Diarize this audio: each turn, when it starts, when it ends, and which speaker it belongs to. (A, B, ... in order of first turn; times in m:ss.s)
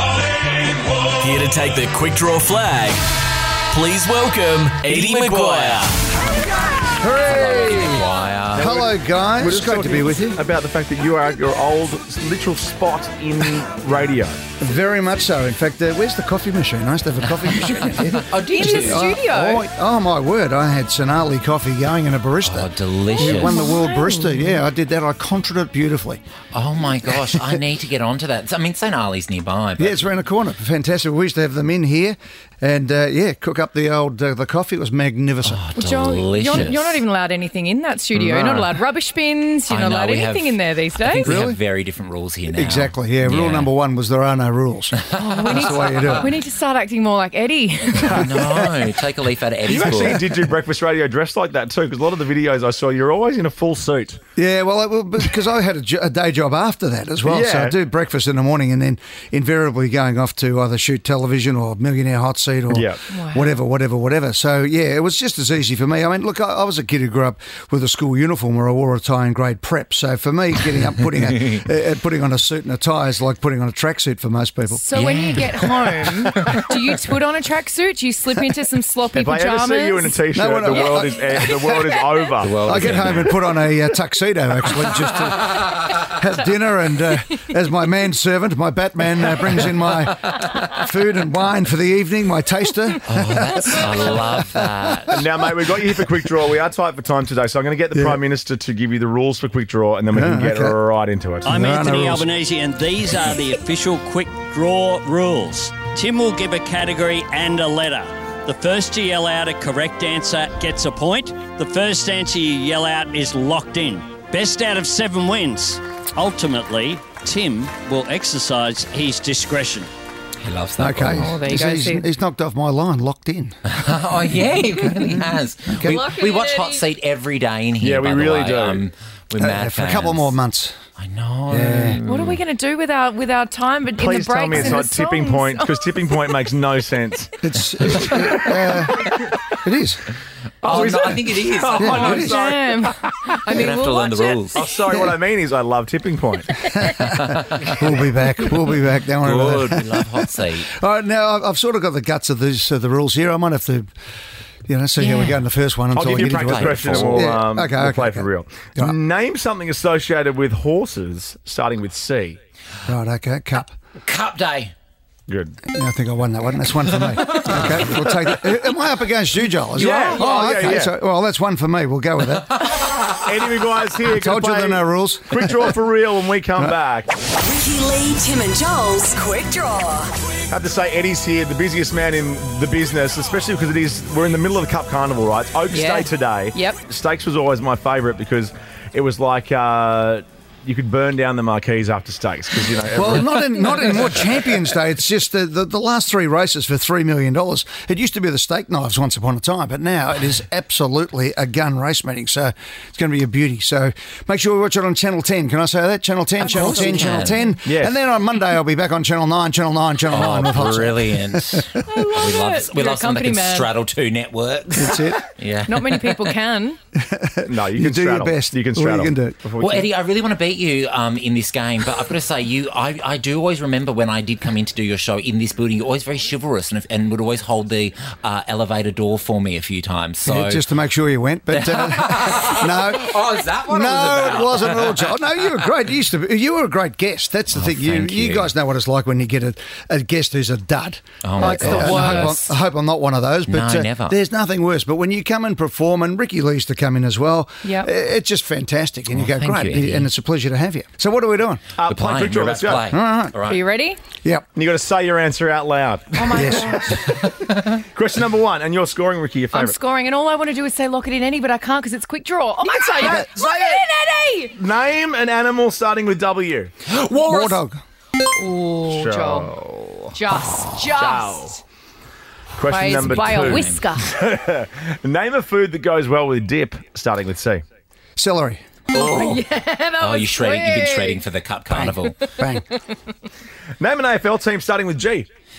0:01.2-0:03.1 A
0:03.7-0:06.0 A
0:04.9-0:05.8 B
0:07.0-0:10.4 C
0:07.2-0:08.7 D
0:08.5-0:14.4 B
0:14.6-0:26.2 C
0:17.7-0:19.1 D
0:18.5-0:19.6 E
0:22.4-0:23.6 D
0:23.1-0:24.4 E
0:26.5-0:30.0 D
0:27.2-0:27.6 C
0:29.8-0:35.6 C
0:35.4-0:37.0 D
0:35.8-0:41.4 E
0:38.2-0:38.7 B
0:39.7-0:40.6 D
0:41.1-0:43.7 D
0:41.2-0:41.6 C
0:42.5-0:46.3 C
0:45.1-0:48.4 E
0:48.0-0:48.7 B
0:48.2-0:50.2 D
0:49.6-0:54.2 B
0:54.4-1:14.9 C
0:57.2-0:57.8 B
1:02.7-1:03.0 B
1:03.1-1:03.6 E
1:14.7-1:20.2 E
1:14.9-1:16.7 D
1:19.1-1:22.7 B
1:20.3-1:33.8 C
1:22.4-1:23.4 D
1:33.0-1:35.2 D
1:35.1-1:41.6 B
1:37.9-1:38.2 C
1:40.1-1:40.8 C
1:41.4-1:59.9 F
1:41.5-1:42.3 C
2:00.4-2:01.4 D
2:00.8-2:03.6 C
2:01.2-2:02.1 E
2:03.6-2:10.4 D
2:05.7-2:06.1 C
2:05.8-2:06.8 E
2:07.8-2:08.8 B
2:09.4-2:10.8 C
2:11.0-2:12.4 D
2:11.5-2:12.0 C
2:12.0-2:16.4 E
2:14.0-2:19.3 B
2:17.4-2:20.0 C
2:20.6-2:22.3 D
2:20.6-2:23.4 B
2:21.7-2:22.5 C
2:21.9-2:24.8 E
2:23.5-2:24.7 D
2:24.5-2:26.6 B
2:26.5-2:26.9 E
2:26.7-2:33.9 C
2:29.2-2:30.7 D
2:34.7-2:39.0 C
2:35.0-2:35.3 D
2:35.9-2:42.4 B
2:36.3-2:37.2 D
2:42.8-2:43.7 C
2:44.0-2:44.7 D
2:45.3-2:45.6 B
2:45.7-2:52.6 C
2:49.7-2:50.9 B
2:53.1-2:57.1 B
2:54.0-2:55.7 C
2:57.4-3:00.1 G
3:00.5-3:14.1 B
3:05.7-3:06.8 E
3:12.9-3:32.1 C
3:26.5-3:27.5 D
3:27.6-3:28.0 B
3:30.1-3:36.3 D
3:31.8-3:33.8 E
3:34.7-3:35.2 C
3:35.6-3:36.8 E
3:37.0-3:39.4 C
3:37.5-3:39.9 B
3:39.6-3:50.6 D
3:50.2-4:11.6 C
3:51.5-3:55.1 D
3:57.5-3:58.5 D
4:01.2-4:02.4 D
4:01.4-4:02.5 E
4:03.5-4:04.2 D
4:07.6-4:07.9 E
4:09.1-4:10.1 D
4:11.8-4:12.9 B
4:11.8-4:13.6 D
4:12.9-4:13.4 C
4:13.4-4:14.0 E
4:14.5-4:16.6 B
4:16.2-4:17.1 E
4:16.3-4:17.2 C
4:17.5-4:19.8 B
4:19.5-4:24.6 E
4:22.6-4:23.8 B
4:23.0-4:23.3 C
4:24.5-4:26.7 B
4:27.1-4:27.8 C
4:28.3-4:29.5 E
4:28.9-4:31.5 B
4:30.1-4:31.6 E
4:32.6-4:37.6 B
4:32.7-4:34.1 E
4:32.9-4:33.9 D
4:38.2-4:38.6 C
4:38.9-4:41.2 E
4:39.0-4:39.4 D
4:40.0-4:42.2 D
4:41.7-4:42.6 C
4:43.8-4:45.3 B